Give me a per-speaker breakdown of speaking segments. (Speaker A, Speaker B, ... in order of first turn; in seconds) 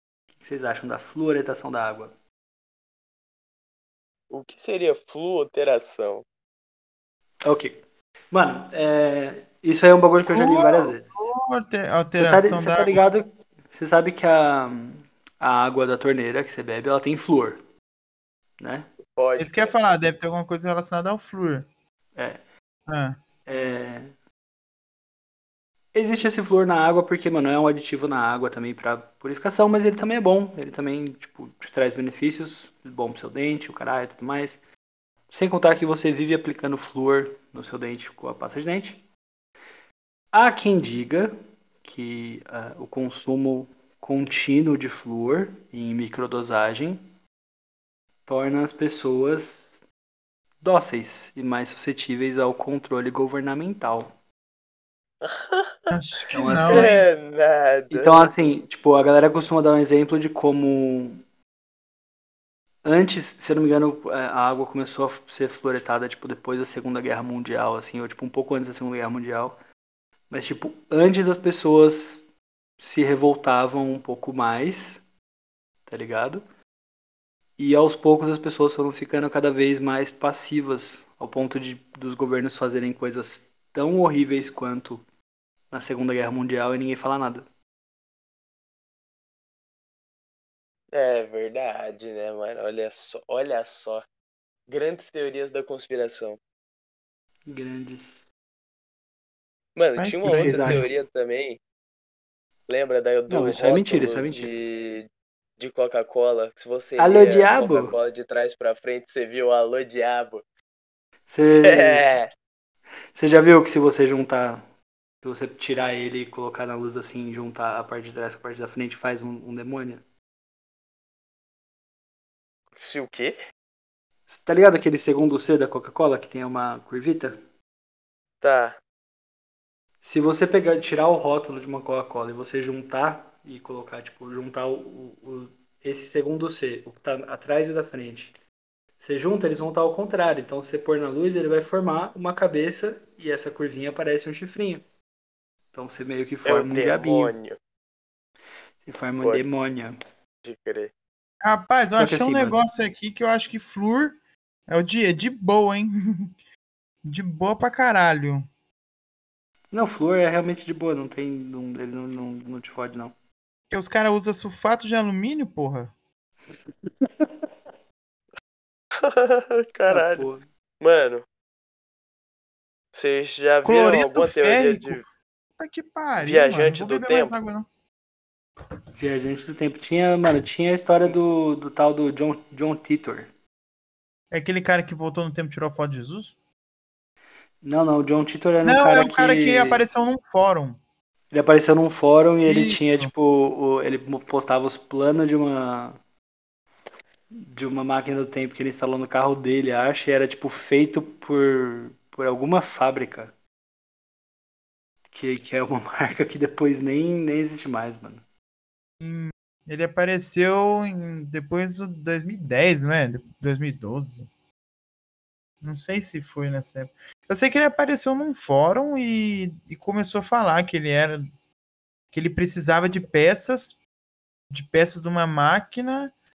Speaker A: 0.4-2.1, 7.5-7.8, 8.3-11.3, 12.2-17.6, 18.6-18.9, 22.1-22.4, 23.4-24.1, 25.9-34.6, 35.3-39.0, 40.3-47.0, 48.3-49.8, 50.6-54.1, 56.3-57.0, 57.9-61.2, 62.9-69.6, 70.3-72.3, 72.8-75.0, 75.9-76.4, 77.6-85.0, 85.7-87.5, 97.5-98.3, 100.3-100.9, 103.3-104.5, 107.0-108.0, 111.3-112.1, 113.1-114.6, 115.2-120.0, 124.3-127.4, 130.0-138.4, 139.0-144.8, 145.7-147.3, 148.8-150.0, 152.0-152.6, 159.7-163.2, 166.9-167.3, 169.9-170.5, 178.9-183.3, 187.6-189.8, 191.3-196.0, 197.3-203.3, 205.1-208.2
Speaker B: 4.3-6.2, 19.2-19.8, 55.2-55.8, 56.7-58.2, 90.9-94.0, 94.7-96.4, 99.8-101.6, 102.7-110.4, 111.6-112.3, 122.8-123.4, 128.4-128.8, 146.4-147.6, 149.2-149.4, 150.4-150.9, 169.0-170.3, 170.8-171.2, 172.9-175.0, 176.2-177.3
Speaker C: 10.3-13.0, 19.4-21.7, 22.9-23.2, 55.9-57.0, 100.0-100.9, 151.4-154.2, 154.7-156.3, 157.0-158.5, 163.7-165.9, 173.6-175.1, 175.6-177.7, 184.3-186.4, 188.6-190.8, 192.5-193.1, 209.0-214.3, 215.6-221.2, 222.1-223.8, 224.5-226.1